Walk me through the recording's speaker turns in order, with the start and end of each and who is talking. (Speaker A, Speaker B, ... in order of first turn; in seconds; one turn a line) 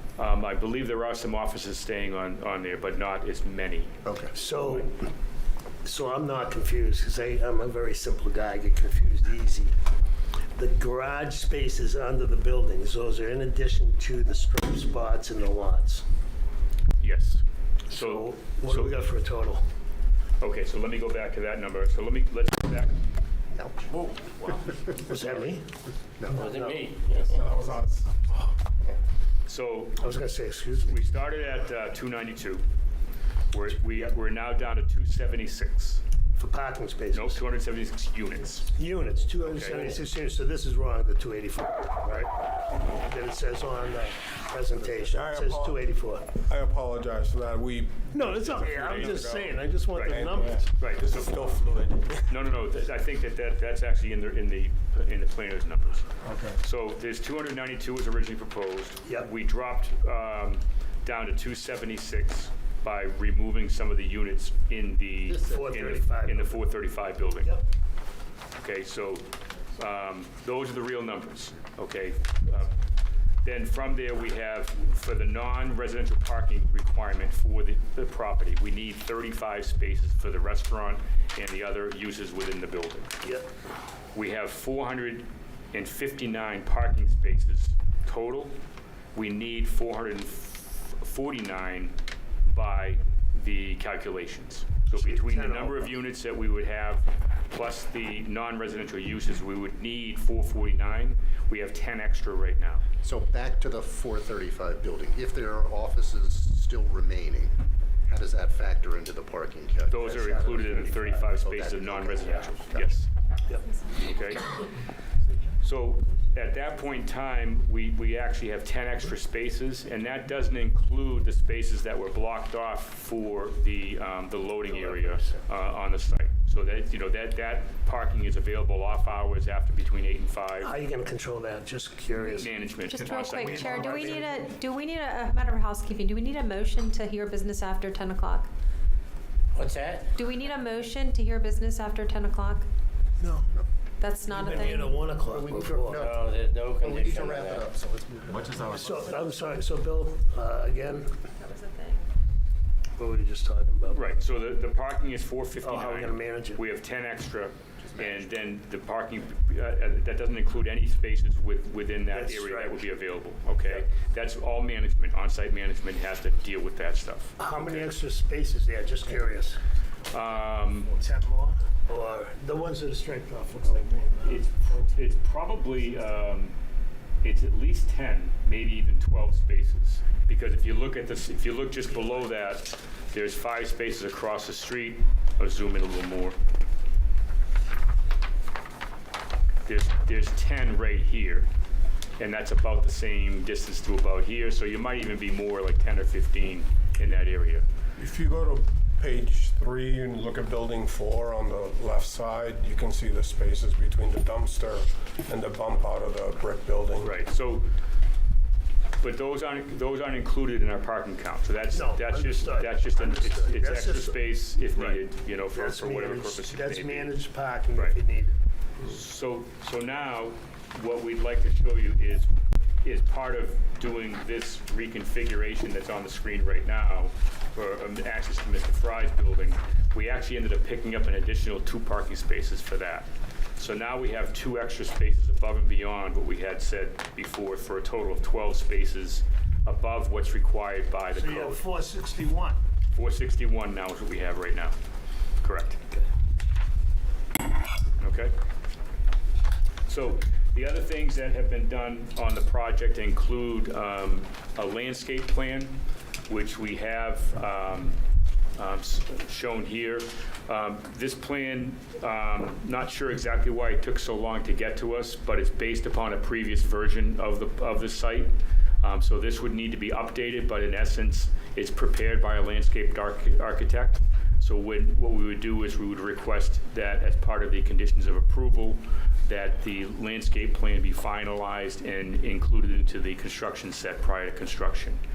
Speaker A: 0.2-4.9
Speaker B: 4.0-4.3
Speaker C: 4.3-4.9
Speaker C: 5.8-9.7
Speaker C: 10.6-16.0
Speaker A: 17.0-18.9
Speaker C: 17.9-19.6
Speaker A: 20.4-22.9
Speaker B: 23.5-23.9
Speaker C: 25.0-25.8
Speaker B: 26.2-26.5
Speaker D: 26.3-27.4
Speaker C: 26.3-26.8
Speaker E: 27.1-28.4
Speaker A: 29.4-30.1
Speaker C: 30.0-31.0
Speaker A: 30.7-32.6
Speaker A: 33.5-36.0
Speaker C: 36.4-37.4
Speaker A: 37.1-38.7
Speaker C: 38.7-46.3
Speaker A: 39.4-40.0
Speaker E: 45.1-45.8
Speaker E: 46.3-52.2
Speaker C: 48.1-50.7
Speaker A: 50.8-51.3
Speaker A: 52.3-67.5
Speaker E: 56.2-56.6
Speaker B: 65.3-65.9
Speaker C: 65.5-66.6
Speaker C: 67.4-67.7
Speaker A: 68.6-72.7
Speaker A: 73.4-83.2
Speaker A: 84.1-88.5
Speaker A: 89.1-102.8
Speaker C: 94.9-96.0
Speaker B: 103.0-112.9
Speaker A: 109.9-113.1
Speaker C: 110.9-111.2
Speaker F: 113.7-114.0
Speaker A: 114.0-114.6
Speaker A: 115.6-130.7
Speaker C: 124.7-125.4
Speaker C: 130.6-132.5
Speaker A: 132.3-134.1
Speaker F: 132.8-138.5
Speaker C: 133.4-134.4
Speaker D: 139.5-140.1
Speaker F: 140.2-142.7
Speaker C: 143.2-143.5
Speaker F: 144.0-145.0
Speaker C: 144.3-146.0
Speaker B: 145.2-148.8
Speaker D: 145.9-147.7
Speaker E: 148.5-148.9
Speaker C: 148.7-151.2
Speaker F: 151.4-152.1
Speaker C: 152.9-154.0
Speaker A: 153.9-167.9
Speaker C: 155.6-156.6
Speaker B: 157.8-158.3
Speaker C: 162.1-162.9
Speaker C: 167.4-169.6
Speaker A: 170.1-170.9
Speaker C: 170.9-174.4
Speaker A: 174.2-176.5
Speaker A: 177.2-186.3
Speaker A: 189.7-191.5
Speaker A: 192.2-197.6
Speaker E: 198.0-207.1
Speaker A: 207.0-207.7
Speaker A: 209.0-217.2
Speaker C: 211.7-214.2
Speaker C: 215.5-218.3
Speaker A: 217.7-218.0
Speaker A: 218.8-222.3
Speaker A: 222.8-241.6
Speaker C: 241.1-242.6
Speaker A: 242.9-244.7
Speaker A: 245.4-245.9
Speaker A: 248.0-248.3
Speaker A: 249.9-258.0
Speaker A: 258.5-285.0